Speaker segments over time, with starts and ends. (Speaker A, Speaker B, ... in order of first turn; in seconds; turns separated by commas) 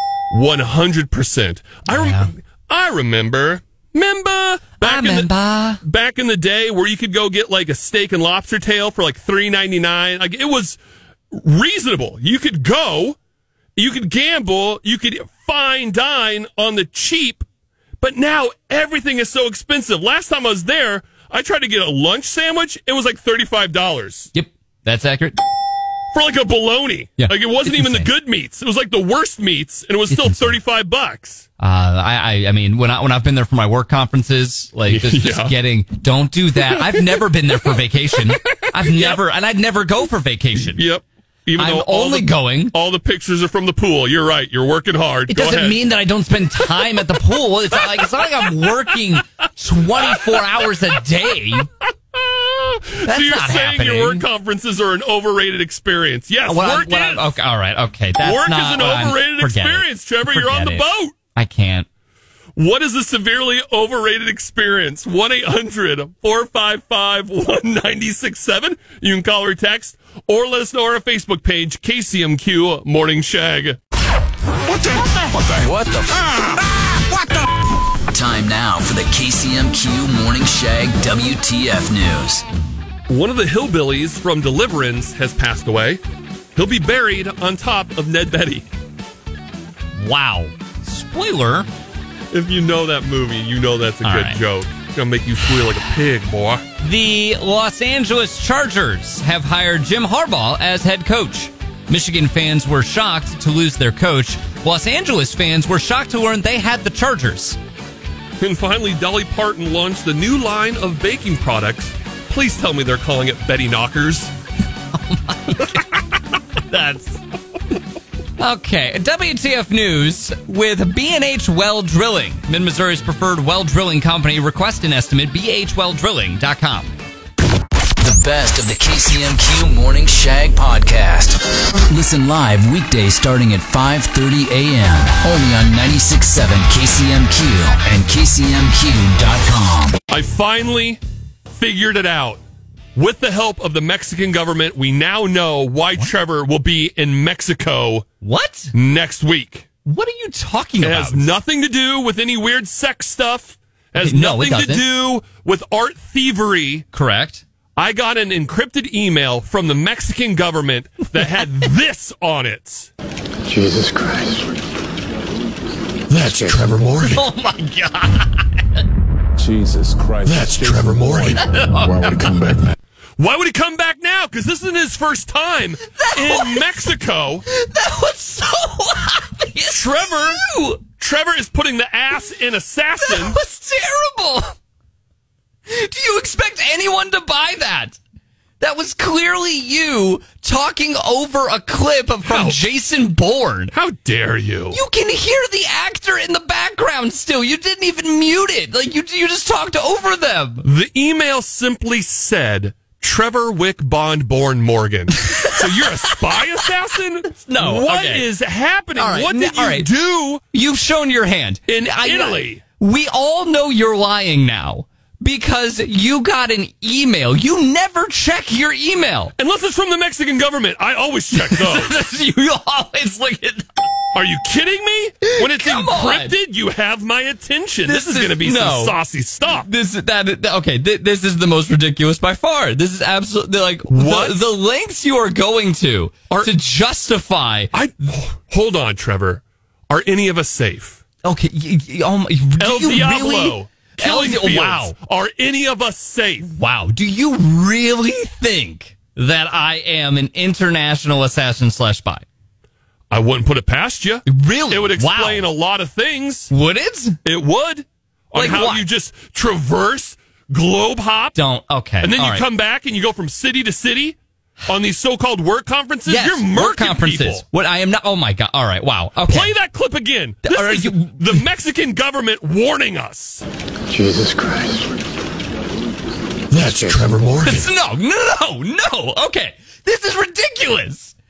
Speaker A: 0.3-5.3, Speaker B: 1.9-2.3, Speaker B: 4.8-5.8, Speaker A: 5.8-10.8, Speaker A: 11.3-13.2, Speaker A: 13.8-17.4, Speaker A: 18.0-24.3, Speaker B: 24.3-25.4, Speaker A: 26.1-31.5, Speaker B: 27.2-28.1, Speaker B: 30.1-30.6, Speaker B: 31.6-40.8, Speaker A: 34.9-35.5, Speaker A: 36.7-37.2, Speaker A: 38.5-39.2, Speaker A: 40.6-45.8, Speaker B: 41.6-42.7, Speaker B: 45.3-51.7, Speaker A: 47.7-48.7, Speaker A: 50.0-51.0, Speaker A: 52.1-57.3, Speaker B: 53.0-54.2, Speaker B: 56.5-61.9, Speaker A: 58.2-61.1, Speaker A: 62.6-73.8, Speaker C: 74.7-77.5, Speaker D: 78.1-82.5, Speaker A: 83.1-86.0, Speaker A: 86.5-88.7, Speaker B: 90.0-91.7, Speaker A: 92.3-96.6, Speaker B: 94.0-94.4, Speaker B: 96.8-107.6, Speaker A: 108.4-114.3, Speaker B: 114.9-116.0, Speaker B: 116.7-117.2, Speaker B: 118.4-126.9, Speaker D: 128.0-140.0, Speaker A: 140.1-142.4, Speaker A: 142.9-148.1, Speaker B: 148.2-148.7, Speaker A: 148.7-149.7, Speaker B: 149.9-151.3, Speaker A: 150.8-156.9, Speaker B: 154.0-154.8, Speaker B: 156.9-157.4, Speaker A: 157.8-162.9, Speaker C: 163.5-164.6, Speaker A: 166.1-167.2, Speaker C: 166.2-166.7, Speaker B: 167.1-168.8, Speaker C: 169.5-170.9, Speaker A: 170.2-171.5, Speaker B: 171.3-172.6, Speaker A: 173.2-177.4, Speaker B: 175.9-176.9, Speaker B: 177.5-180.8, Speaker A: 179.7-183.4, Speaker B: 183.0-184.5, Speaker B: 185.7-188.0, Speaker B: 188.6-193.7, Speaker A: 192.3-192.6, Speaker A: 193.7-194.8, Speaker B: 194.7-200.7, Speaker A: 200.6-210.4, Speaker B: 205.2-206.4, Speaker B: 207.3-208.2, Speaker B: 209.0-209.9, Speaker B: 210.5-219.3, Speaker A: 211.7-212.6, Speaker A: 219.4-221.9, Speaker B: 221.3-223.7, Speaker A: 224.1-229.7, Speaker B: 225.2-226.3, Speaker B: 227.9-229.0, Speaker B: 229.5-237.7, Speaker A: 233.9-234.4, Speaker A: 237.7-241.0, Speaker B: 241.2-244.9, Speaker A: 242.6-246.5, Speaker B: 246.4-252.2, Speaker A: 253.1-256.5, Speaker B: 254.3-255.5, Speaker B: 256.5-257.2, Speaker A: 257.2-261.4, Speaker B: 258.3-258.9, Speaker B: 261.4-262.4, Speaker A: 262.0-267.4, Speaker B: 266.1-269.5, Speaker A: 269.3-273.4, Speaker B: 270.4-271.4, Speaker C: 273.9-275.0, Speaker A: 276.5-277.7, Speaker C: 276.6-277.1, Speaker B: 277.4-281.1